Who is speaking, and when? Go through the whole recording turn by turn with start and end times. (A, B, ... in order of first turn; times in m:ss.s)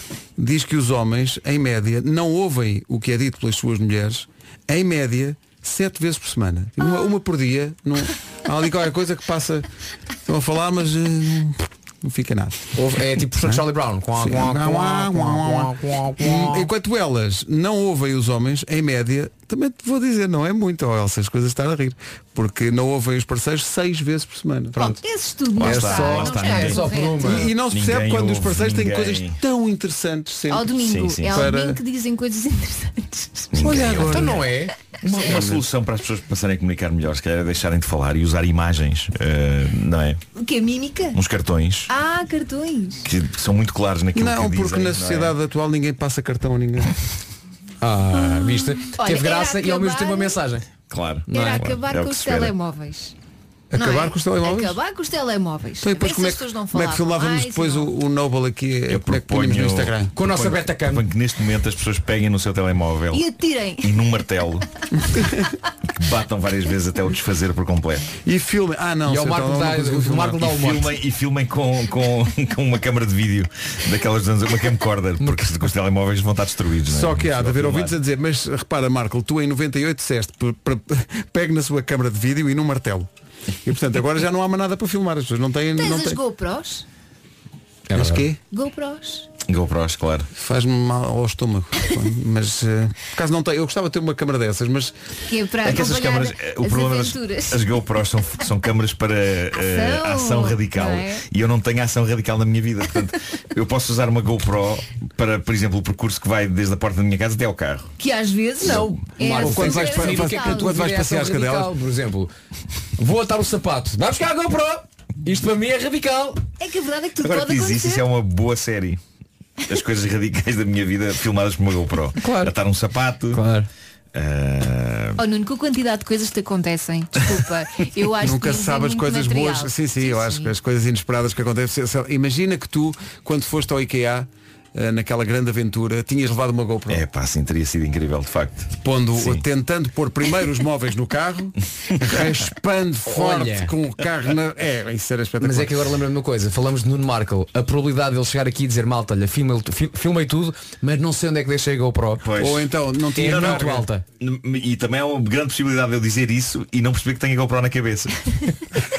0:00.4-0:09.7 A
0:10.3-0:12.7 A
0:12.8-0:16.6 B
0:14.2-0:24.8 A
0:24.8-0:27.4 C
0:25.6-0:29.4 D
0:25.6-0:26.6 A
0:25.7-0:27.5 B
0:27.2-0:30.7 A
0:30.5-0:33.5 C
0:30.8-0:31.5 D
0:31.3-0:31.8 A
0:33.5-0:34.5 D
0:33.6-0:34.5 A
0:33.6-0:34.7 B
0:35.0-0:40.2 D
0:35.3-0:35.6 A
0:40.4-0:41.2 C
0:41.1-0:41.9 D
0:41.9-0:43.1 C
0:43.0-0:45.4 D
0:44.2-0:47.0 A
0:47.8-0:50.6 B
0:49.0-0:50.4 C
0:50.9-0:52.5 D
0:51.3-0:53.1 C
0:51.3-0:51.6 B
0:53.7-0:54.8 A
0:53.8-0:57.9 C
0:55.8-1:00.2 A
0:58.9-1:03.2 D
1:00.2-1:01.1 B
1:03.1-1:04.0 C
1:03.8-1:04.7 D
1:06.0-1:08.1 D
1:08.2-1:10.5 A
1:09.1-1:11.0 B
1:10.4-1:18.0 D
1:16.9-1:23.1 A
1:23.6-1:26.2 A
1:25.8-1:26.8 C
1:27.9-1:28.3 B
1:27.9-1:28.4 A
1:28.5-1:29.3 C
1:29.5-1:30.3 D
1:30.3-1:34.9 A
1:35.3-1:37.8 C
1:35.6-1:47.9 D
1:39.5-1:41.2 C
1:48.0-1:50.8 C
1:48.6-1:52.3 B
1:48.7-1:48.9 D
1:49.4-1:51.7 A
1:53.0-1:56.4 B
1:56.6-1:58.1 C
1:57.2-1:59.0 D
1:59.7-2:03.4 D
2:02.2-2:02.5 B
2:03.3-2:03.7 B
2:04.1-2:05.2 D
2:05.2-2:10.5 C
2:08.2-2:17.0 A
2:16.9-2:19.4 D
2:18.8-2:25.8 A
2:23.1-2:23.7 B
2:25.4-2:32.3 B
2:32.2-2:38.1 D
2:32.4-2:33.9 A
2:33.2-2:34.0 B